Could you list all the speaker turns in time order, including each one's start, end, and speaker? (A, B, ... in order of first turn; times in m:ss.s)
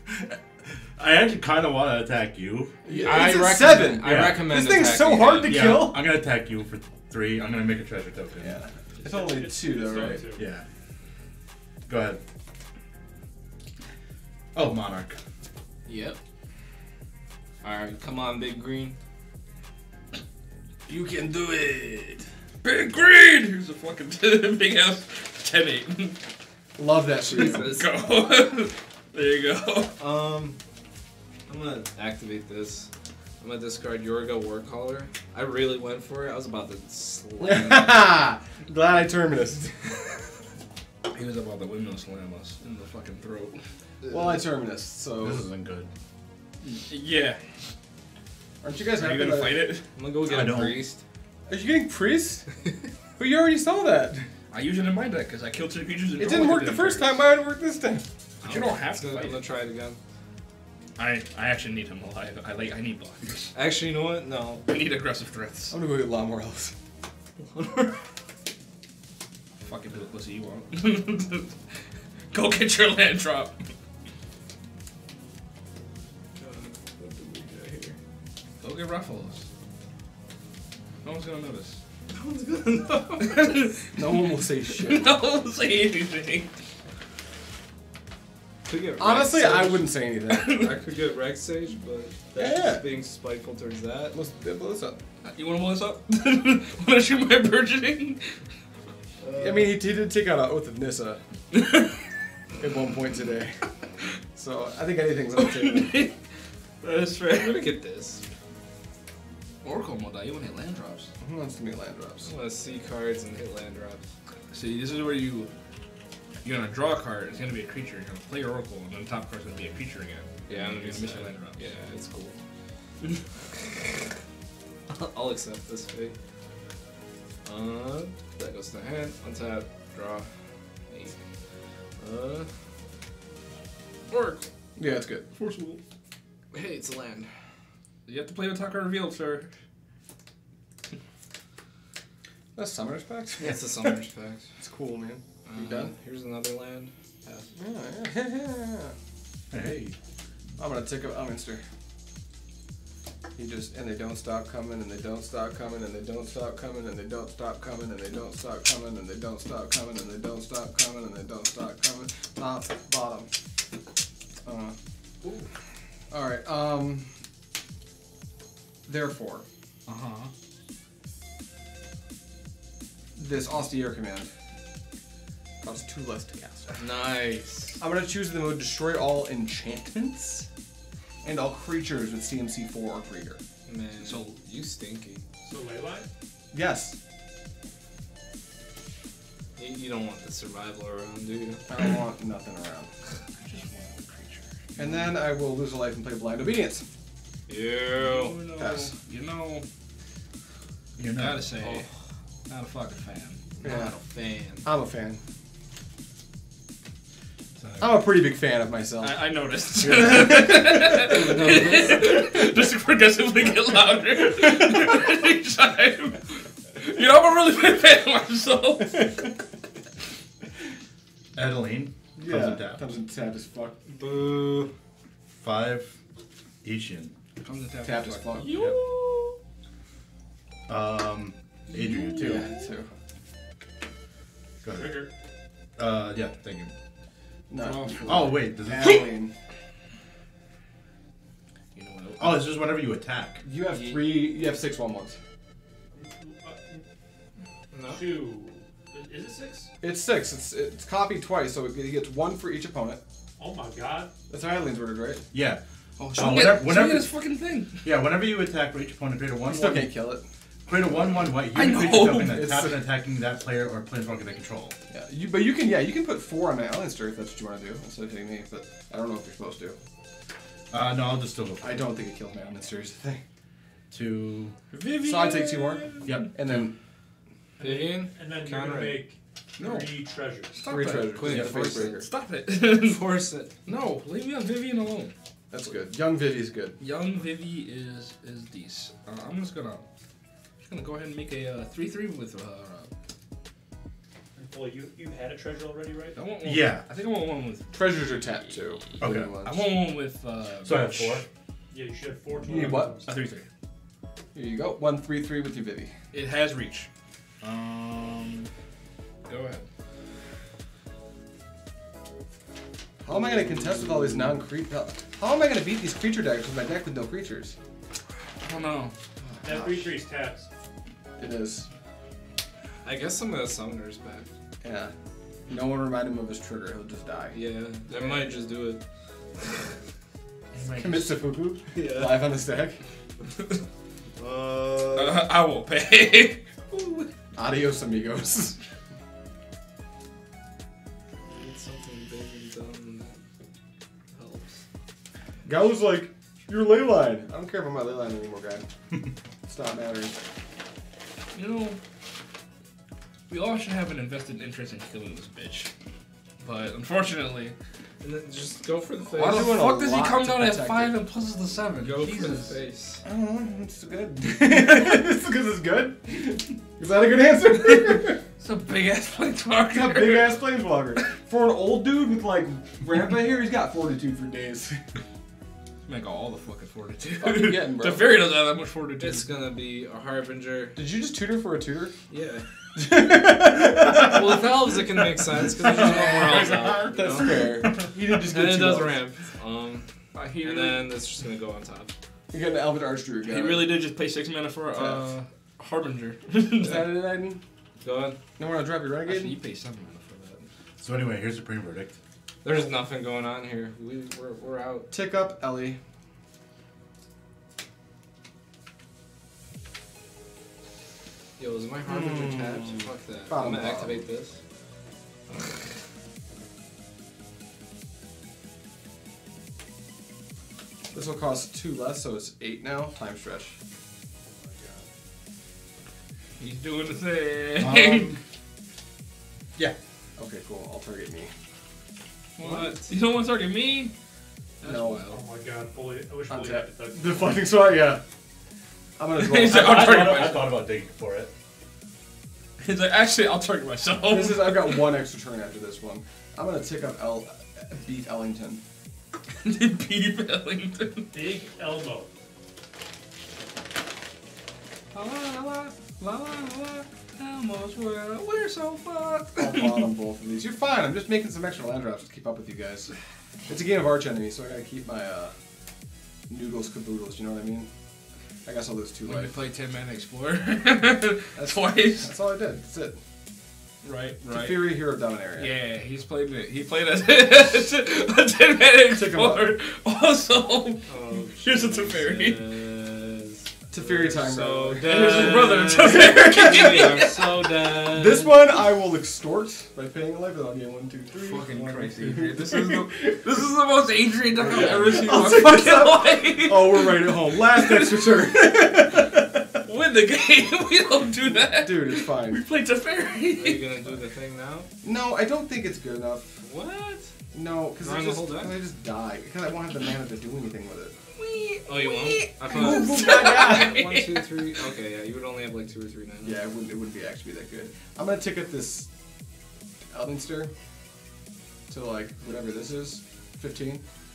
0:01.0-0:02.8 A
0:02.8-0:06.0 B
0:02.9-0:05.8 C
0:04.0-0:04.5 A
0:05.4-0:08.6 A
0:08.4-0:10.2 B
0:09.0-0:10.5 D
0:10.3-0:10.6 A
0:11.9-0:12.2 A
0:14.5-0:15.2 A
0:15.9-0:16.2 C
0:17.6-0:19.0 C
0:20.9-0:22.2 B
0:22.6-0:26.2 E
0:26.8-0:27.8 B
0:27.3-0:27.9 C
0:27.3-0:29.9 E
0:30.0-0:30.6 C
0:31.5-0:32.9 C
0:33.4-0:38.0 C
0:37.4-0:39.7 B
0:41.1-0:43.6 E
0:44.0-0:44.4 C
0:44.1-0:45.4 B
0:45.2-0:45.9 A
0:46.6-0:47.4 E
0:48.6-0:49.7 B
0:48.9-0:49.9 E
0:50.0-0:51.0 C
0:50.3-0:50.8 A
0:51.5-0:52.5 B
0:53.2-0:54.3 B
0:54.5-0:57.2 E
0:56.2-0:58.0 B
0:58.4-1:00.0 C
0:58.4-0:59.5 E
1:01.0-1:03.5 E
1:03.5-1:04.6 C
1:04.7-1:05.8 E
1:05.7-1:06.7 B
1:07.4-1:08.0 C
1:09.6-1:11.5 E
1:12.3-1:13.7 E
1:16.4-1:18.0 C
1:18.6-1:19.4 E
1:21.0-1:21.8 E
1:22.1-1:23.6 C
1:23.2-1:26.6 E
1:23.9-1:25.1 B
1:28.6-1:34.2 C
1:29.0-1:30.7 B
1:30.3-1:30.7 E
1:32.3-1:32.8 B
1:34.1-1:35.0 B
1:35.2-1:38.3 E
1:39.2-1:39.8 C
1:39.4-1:41.2 B
1:41.6-1:41.9 E
1:42.6-1:43.6 B
1:44.3-1:46.1 B
1:45.4-1:46.2 E
1:46.8-1:47.6 E
1:47.2-1:48.2 C
1:49.6-1:51.1 E
1:51.2-1:52.3 B
1:52.2-1:54.0 C
1:54.5-1:55.5 E
1:56.4-2:01.6 E
2:00.5-2:02.4 C
2:04.9-2:06.1 C
2:07.4-2:10.2 C
2:10.9-2:11.2 C
2:12.0-2:12.5 C
2:14.1-2:14.5 E
2:14.8-2:15.2 B
2:15.3-2:15.8 E
2:16.5-2:17.3 C
2:18.0-2:19.5 E
2:22.5-2:24.0 B
2:23.4-2:24.5 C
2:24.6-2:25.9 B
2:25.4-2:27.5 C
2:27.5-2:28.9 B
2:29.5-2:29.9 A
2:30.6-2:31.6 B
2:33.4-2:43.3 B
2:44.4-2:44.7 B
2:46.1-2:47.1 B
2:48.8-2:49.4 B
2:49.9-2:50.3 E
2:53.2-2:54.3 B
2:55.6-2:56.8 B
2:56.8-2:57.8 C
2:57.8-3:00.4 B
3:01.2-3:03.4 B
3:03.7-3:05.2 C
3:04.0-3:04.4 E
3:05.4-3:06.1 D
3:06.5-3:07.0 B
3:09.6-3:11.6 C
3:11.6-3:12.9 B
3:13.4-3:15.1 E
3:14.8-3:16.8 B
3:17.5-3:18.4 C
3:17.9-3:19.6 E
3:18.6-3:18.9 B
3:21.0-3:21.5 A
3:21.0-3:21.8 E
3:21.6-3:21.9 C
3:22.5-3:23.4 E
3:23.6-3:24.6 C
3:23.6-3:23.9 B
3:24.6-3:25.2 B
3:27.6-3:28.0 E
3:27.8-3:31.8 B
3:29.0-3:39.1 E
3:31.2-3:32.0 C
3:41.3-3:42.8 A
3:42.2-3:43.8 B
3:43.9-3:44.7 C
3:45.4-3:45.9 A
3:46.6-3:47.1 A
3:47.4-3:49.4 E
3:47.8-3:48.5 B
3:48.5-3:48.8 A
3:50.7-3:52.5 A
3:51.7-3:52.6 E
3:52.2-3:52.9 B
3:54.6-3:55.0 A
3:54.7-3:55.1 D
3:55.8-3:56.7 A
3:57.5-3:59.3 B
3:57.6-3:58.4 E
3:58.0-3:59.0 A
4:01.7-4:02.4 E
4:02.2-4:03.4 A
4:03.4-4:05.2 B
4:03.7-4:04.1 C
4:05.9-4:06.8 D
4:07.7-4:08.2 C
4:07.9-4:09.7 D
4:09.8-4:13.0 B
4:13.4-4:14.1 D
4:14.3-4:15.2 B
4:15.3-4:15.6 A
4:16.0-4:17.8 E
4:16.1-4:17.1 A
4:17.8-4:19.9 A
4:19.4-4:20.2 B
4:20.7-4:24.8 A
4:21.5-4:22.4 E
4:22.1-4:22.8 B
4:24.9-4:29.8 B
4:30.7-4:31.8 A
4:31.6-4:33.2 B
4:33.9-4:34.6 A
4:34.7-4:36.3 E
4:35.0-4:36.7 B
4:36.0-4:36.7 A
4:37.6-4:39.1 C
4:37.6-4:40.7 D
4:39.6-4:39.9 E
4:40.6-4:43.0 E
4:40.6-4:42.1 B
4:40.7-4:42.0 C
4:42.7-4:43.5 C
4:43.6-4:45.1 E
4:45.5-4:46.8 B
4:46.8-4:49.9 E
4:50.6-4:52.9 E
4:54.4-4:56.2 D
4:56.1-4:58.2 E
4:56.4-4:56.8 A
4:57.7-4:59.7 B
4:59.0-4:59.3 A
4:59.3-5:01.2 E
5:00.6-5:01.2 A
5:01.7-5:03.1 D
5:02.4-5:02.9 B
5:03.0-5:03.5 E
5:04.3-5:05.9 B
5:06.1-5:06.9 E
5:07.4-5:08.4 A
5:09.2-5:09.6 E
5:13.0-5:17.5 B
5:13.3-5:14.2 C
5:18.4-5:18.9 E
5:19.2-5:20.0 B
5:19.4-5:20.5 D
5:21.2-5:21.7 B
5:22.8-5:24.3 C
5:24.6-5:24.9 B
5:25.5-5:27.4 B
5:27.3-5:28.8 C
5:30.5-5:31.2 E
5:30.7-5:32.8 B
5:31.7-5:32.3 C
5:34.2-5:35.2 C
5:34.9-5:36.4 E
5:37.3-5:38.6 B
5:41.2-5:43.2 C
5:44.1-5:44.6 C
5:45.4-5:48.6 B
5:49.5-5:50.1 B
5:51.3-5:51.8 E
5:53.3-5:55.7 E
5:56.4-5:57.5 E
5:58.0-5:59.6 C
5:59.2-6:01.0 B
5:59.2-6:02.6 E
6:01.8-6:03.0 C
6:03.0-6:08.2 B
6:08.4-6:10.4 E
6:09.7-6:14.8 B
6:15.8-6:19.4 E
6:17.2-6:18.2 B
6:19.0-6:20.8 C
6:20.8-6:21.9 B
6:22.1-6:22.4 C
6:22.7-6:24.5 B
6:23.9-6:29.9 C
6:25.7-6:29.0 B
6:25.8-6:26.8 E
6:30.1-6:30.9 E
6:30.4-6:31.9 C
6:32.3-6:33.8 B
6:33.2-6:37.0 E
6:36.5-6:37.4 B
6:37.8-6:38.2 C
6:38.4-6:39.4 B
6:39.0-6:40.4 E
6:40.8-6:42.0 A
6:42.4-6:44.9 C
6:44.9-6:45.8 B
6:51.4-6:54.4 C
6:51.8-6:54.0 B
7:00.9-7:03.6 B
7:04.3-7:04.8 B
7:06.4-7:08.1 E
7:07.6-7:08.2 A
7:10.2-7:11.3 B
7:12.4-7:12.9 C
7:12.4-7:13.9 E
7:14.6-7:15.2 E
7:14.6-7:15.0 B
7:15.1-7:17.5 D
7:16.3-7:18.0 B
7:19.0-7:20.0 B
7:19.1-7:20.4 E
7:19.5-7:20.5 D
7:19.6-7:21.3 A
7:22.6-7:25.0 E
7:24.1-7:28.6 B
7:29.4-7:31.1 E
7:31.1-7:32.1 D
7:34.9-7:39.9 E
7:39.4-7:42.9 B
7:43.5-7:45.3 B
7:46.3-7:47.7 B
7:48.4-7:49.3 B
7:49.0-7:52.1 E
7:51.4-7:53.0 B
7:53.8-7:54.8 E
7:54.3-7:55.5 B
7:55.4-8:00.8 E
7:58.9-7:59.5 B
8:00.9-8:08.4 C
8:01.4-8:02.4 E
8:03.7-8:07.0 B
8:04.7-8:07.6 E
8:07.8-8:11.4 B
8:11.1-8:18.5 E
8:11.2-8:12.8 C
8:12.0-8:13.0 B
8:14.4-8:19.6 B
8:14.5-8:15.4 C
8:19.6-8:23.9 E
8:21.3-8:22.4 B
8:23.3-8:24.7 C
8:24.8-8:26.4 B
8:26.4-8:27.1 C
8:27.3-8:30.9 B
8:27.8-8:28.6 C
8:31.1-8:34.4 E
8:31.6-8:36.4 C
8:32.5-8:34.0 B
8:36.2-8:38.9 B
8:39.9-8:40.5 B
8:41.7-8:43.8 B